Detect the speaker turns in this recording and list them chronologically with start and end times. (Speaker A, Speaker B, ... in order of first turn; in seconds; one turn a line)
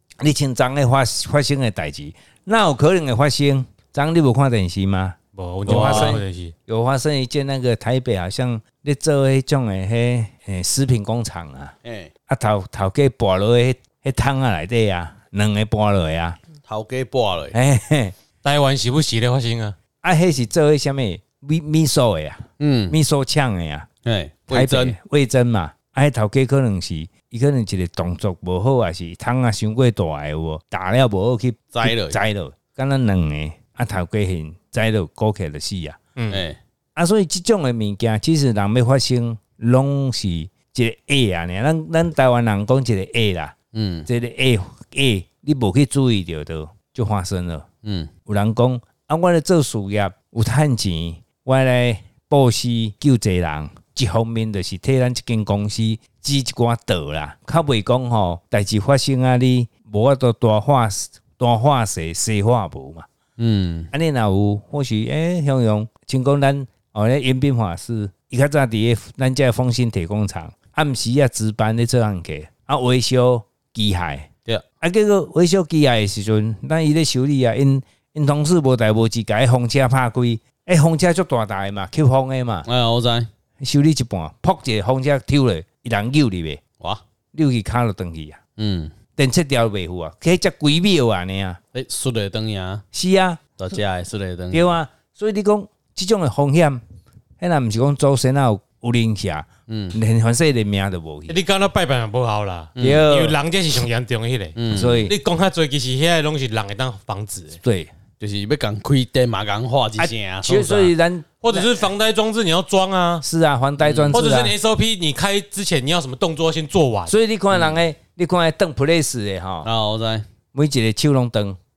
Speaker A: 0.2-11.7
Speaker B: 5.3-6.5
Speaker C: 5.7-6.2
Speaker C: 11.8-12.1
Speaker A: 12.3-16.4
Speaker C: 16.7-17.6
Speaker A: 17.5-18.1
Speaker B: 18.4-19.8
Speaker A: 20.0-23.9
Speaker C: 22.6-23.0
Speaker C: 24.0-24.9
Speaker A: 24.5-36.0
Speaker C: 31.7-32.2
Speaker B: 36.2-36.4
Speaker C: 36.3-36.6
Speaker A: 36.9-43.5
Speaker C: 43.7-44.1
Speaker A: 44.1-47.7
Speaker C: 47.8-48.1
Speaker A: 48.3-63.1
Speaker C: 63.4-63.9
Speaker A: 63.9-74.3
Speaker A: 74.8-82.7
Speaker C: 82.7-83.3
Speaker A: 83.6-86.6
Speaker A: 87.3-88.4
Speaker C: 88.6-88.9
Speaker A: 89.2-91.6
Speaker C: 91.7-92.8
Speaker A: 92.9-93.4
Speaker C: 93.6-94.7
Speaker A: 94.5-96.8
Speaker A: 97.4-101.4
Speaker C: 99.7-100.0
Speaker B: 101.3-107.6
Speaker C: 102.8-103.0
Speaker A: 102.8-103.4
Speaker C: 104.6-105.0
Speaker A: 104.7-105.1
Speaker A: 107.6-107.9
Speaker C: 108.2-110.9
Speaker A: 110.0-111.9
Speaker B: 111.4-113.2
Speaker A: 113.2-114.5
Speaker C: 113.8-114.2
Speaker B: 114.1-117.2
Speaker A: 117.1-119.7
Speaker C: 117.5-117.8
Speaker C: 119.6-120.2
Speaker A: 120.5-121.6